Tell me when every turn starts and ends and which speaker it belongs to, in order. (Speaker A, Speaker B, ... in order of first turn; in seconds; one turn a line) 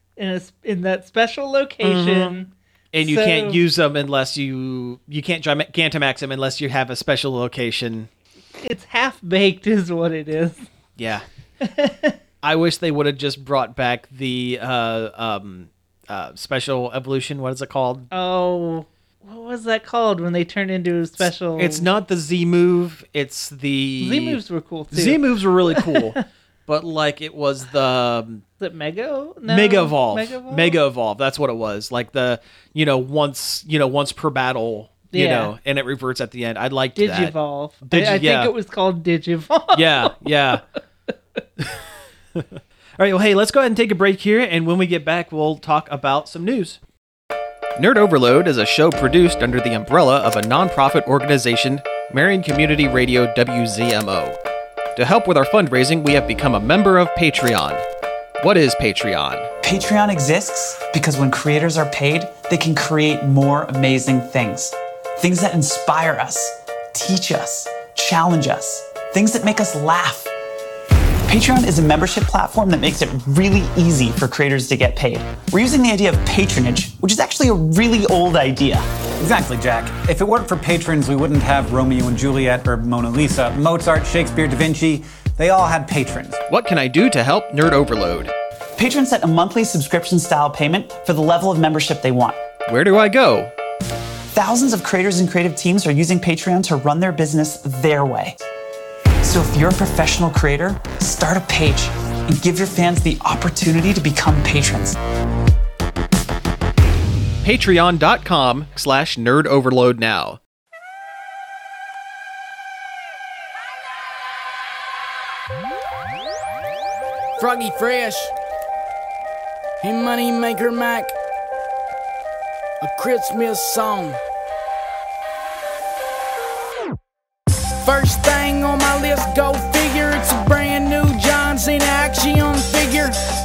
Speaker A: 0.2-3.6
Speaker B: 1.8-2.4
Speaker B: 2.9-8.1
Speaker A: 8.6-10.7
Speaker B: 11.0-11.2
Speaker A: 11.6-12.2
Speaker B: 12.4-18.1
Speaker A: 18.1-21.9
Speaker B: 21.6-24.4
Speaker A: 24.0-26.1
Speaker B: 24.9-28.4
Speaker A: 28.6-30.8
Speaker B: 29.5-38.5
Speaker A: 35.1-35.5
Speaker A: 37.0-40.6
Speaker B: 39.7-40.6
Speaker B: 42.3-46.8
Speaker B: 47.8-54.4
Speaker B: 55.0-57.8
Speaker B: 58.4-59.5
Speaker C: 59.6-70.3
Speaker C: 71.2-78.8
Speaker D: 79.2-86.4
Speaker B: 86.5-88.3
Speaker C: 88.8-92.4
Speaker B: 92.7-93.5
Speaker C: 94.3-98.4
Speaker C: 99.2-105.0
Speaker B: 107.4-110.4
Speaker E: 117.4-118.3
Speaker E: 119.8-121.1
Speaker E: 122.8-124.2
Speaker E: 127.8-133.2